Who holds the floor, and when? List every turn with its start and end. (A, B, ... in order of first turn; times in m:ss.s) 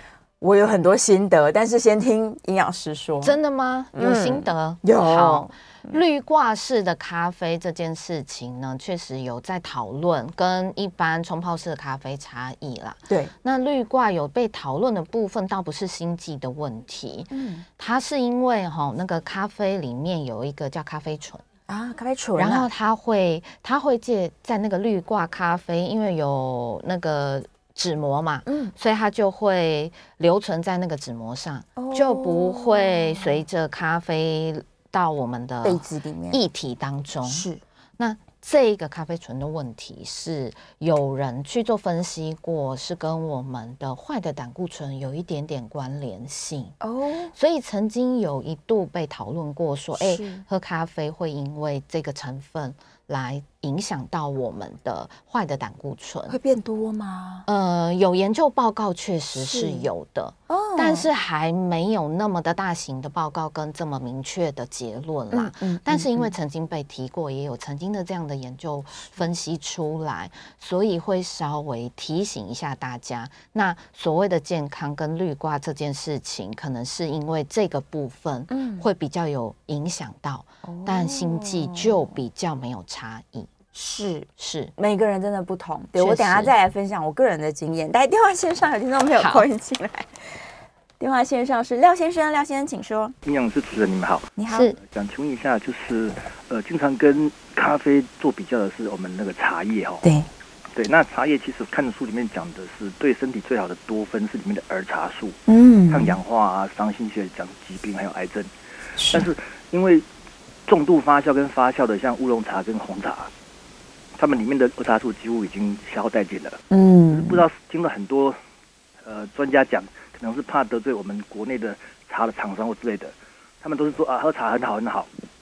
0:00.4-0:03.4 A
0:03.2-0:21.4 B
0:04.0-0:06.0 A
0:17.3-0:17.7 A
0:21.7-0:22.7 A
0:22.4-0:46.8 B
0:28.5-0:28.7 A
0:31.8-0:33.4 A
0:35.6-0:36.4 A
0:37.3-0:37.6 A
0:46.8-0:47.3 A
0:47.3-0:56.4 B
0:50.0-0:50.4 A
0:56.3-0:57.5 A
0:57.5-1:23.5 B
0:59.4-0:59.9 A
1:00.5-1:01.1 A
1:05.3-1:06.3 A
1:18.5-1:18.9 A
1:20.6-1:22.0 A
1:23.7-1:30.1 A
1:24.4-1:24.7 B
1:26.0-1:26.5 B
1:29.2-1:29.5 B
1:31.0-1:33.2 A
1:33.2-1:40.0 C
1:34.4-1:34.7 A
1:34.5-1:34.8 B
1:40.0-1:40.3 A
1:40.8-1:48.5 C
1:45.5-1:46.2 A
1:49.0-1:49.3 A
1:49.1-1:50.0 C
1:50.7-1:53.3 C
1:54.2-1:56.6 C
1:56.7-1:57.4 A
1:57.1-1:58.4 C
1:59.0-2:05.1 C